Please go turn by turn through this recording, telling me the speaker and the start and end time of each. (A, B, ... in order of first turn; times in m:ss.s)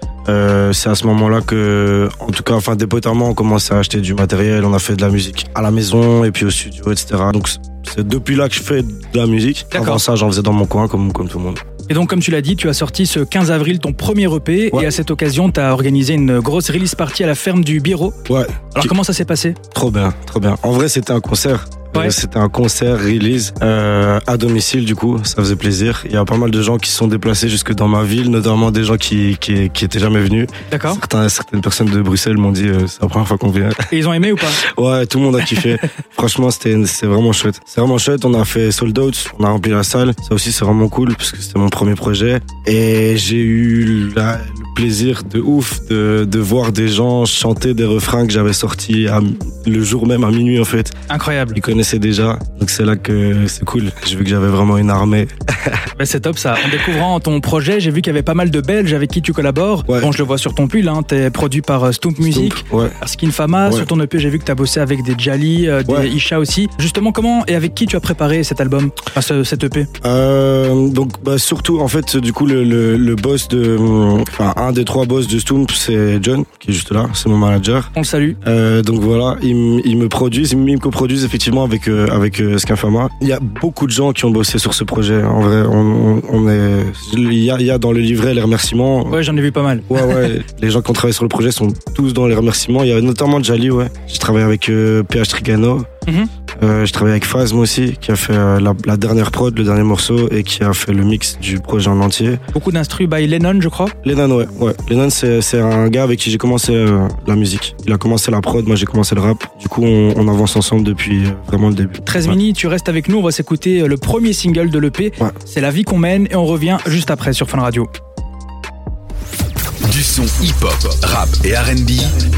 0:00.3-0:11.6 A
0:09.7-0:10.0 B
0:11.9-0:18.2 B
0:18.3-0:18.9 A
0:18.7-0:19.6 B
0:19.7-0:33.9 A
0:30.7-0:31.0 B
0:33.9-0:34.6 B
0:34.6-0:51.0 A
0:51.1-0:51.6 B
0:51.5-0:55.9 A
0:56.0-1:09.9 B
1:02.2-1:03.0 A
1:05.9-1:06.1 A
1:10.0-1:17.9 A
1:17.9-1:18.4 B
1:18.4-1:29.2 A
1:29.1-1:30.2 B
1:29.9-1:35.9 A
1:36.6-1:42.4 A
1:42.5-1:43.9 B
1:44.0-1:52.4 A
1:52.1-1:57.9 B
1:59.8-2:02.2 C